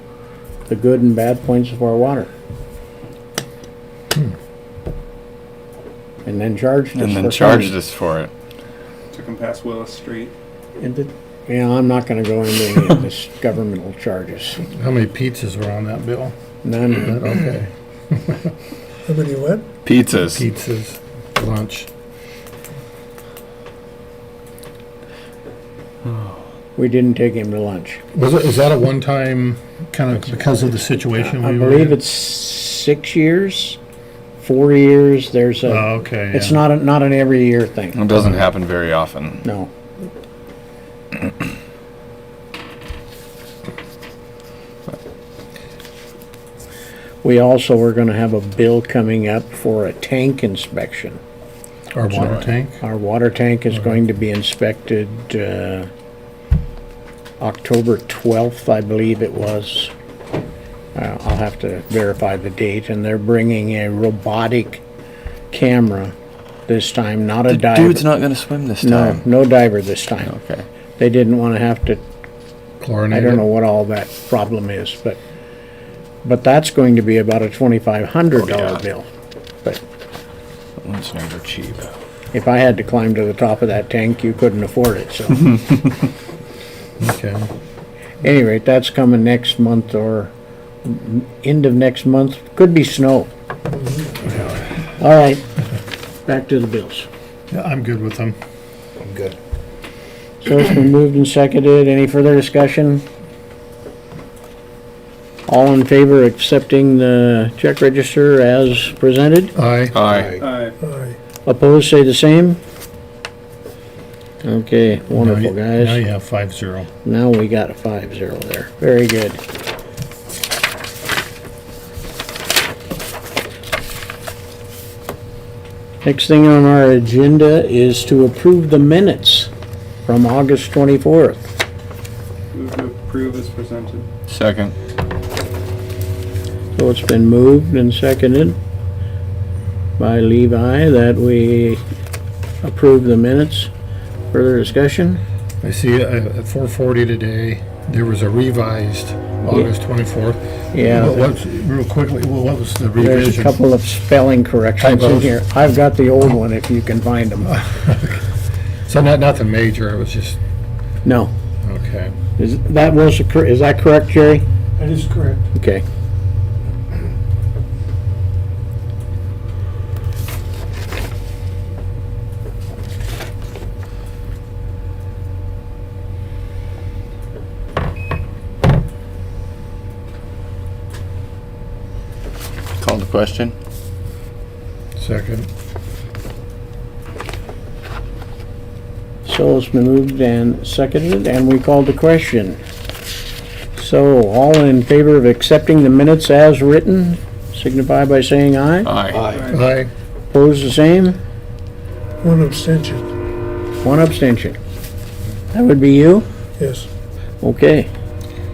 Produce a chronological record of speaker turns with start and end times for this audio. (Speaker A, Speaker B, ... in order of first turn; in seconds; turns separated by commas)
Speaker A: 0.7-2.3, Speaker A: 6.2-7.7, Speaker B: 6.9-8.3, Speaker C: 9.1-10.3, Speaker A: 10.8-14.6, Speaker D: 14.7-16.3, Speaker A: 16.6-17.3, Speaker D: 16.9-18.5, Speaker E: 19.1-19.7, Speaker B: 19.8-20.4, Speaker D: 20.2-21.9, Speaker A: 26.8-28.0, Speaker D: 28.1-32.0, Speaker A: 31.1-33.8, Speaker A: 34.4-38.0, Speaker D: 35.7-36.6, Speaker B: 37.9-39.4, Speaker A: 39.4-39.7, Speaker A: 47.2-51.2, Speaker D: 51.9-52.8, Speaker A: 52.1-55.9, Speaker A: 57.4-59.9, Speaker A: 60.9-64.8, Speaker A: 65.5-66.1, Speaker A: 66.7-68.2, Speaker B: 67.5-69.2, Speaker A: 68.8-70.3, Speaker B: 70.2-70.6, Speaker A: 71.0-72.0, Speaker D: 72.8-73.4, Speaker A: 73.1-75.2, Speaker A: 76.2-79.1, Speaker B: 78.4-78.8, Speaker B: 80.8-81.9, Speaker A: 82.3-85.6, Speaker D: 87.0-87.5, Speaker A: 88.2-90.3, Speaker A: 90.8-93.3, Speaker A: 95.0-95.4, Speaker A: 96.2-97.1, Speaker D: 97.5-98.4, Speaker A: 100.4-103.0, Speaker A: 105.5-109.5, Speaker D: 109.5-110.0, Speaker B: 109.9-110.4, Speaker E: 110.3-111.2, Speaker C: 110.4-110.8, Speaker A: 111.4-112.6, Speaker A: 114.4-116.0, Speaker D: 115.1-116.9, Speaker A: 117.0-119.4, Speaker A: 126.0-129.5, Speaker A: 130.0-131.5, Speaker C: 132.5-134.1, Speaker B: 134.3-134.7, Speaker A: 136.7-138.6, Speaker A: 140.0-141.8, Speaker A: 142.6-143.7, Speaker A: 144.3-145.2, Speaker D: 145.6-153.6, Speaker A: 150.7-151.2, Speaker A: 153.0-157.6, Speaker D: 154.8-155.3, Speaker D: 157.5-158.2, Speaker D: 158.8-160.4, Speaker A: 161.0-161.3, Speaker D: 161.6-162.1, Speaker A: 162.4-164.4, Speaker E: 164.8-165.4, Speaker A: 165.5-165.8, Speaker B: 182.8-183.5, Speaker D: 184.9-185.5, Speaker A: 189.2-192.6, Speaker A: 193.8-198.9, Speaker B: 198.8-199.3, Speaker C: 199.3-199.6, Speaker D: 199.5-199.9, Speaker A: 200.3-201.2, Speaker E: 202.2-203.1, Speaker A: 203.8-204.6, Speaker A: 205.5-206.3, Speaker E: 206.6-206.9, Speaker A: 207.4-207.9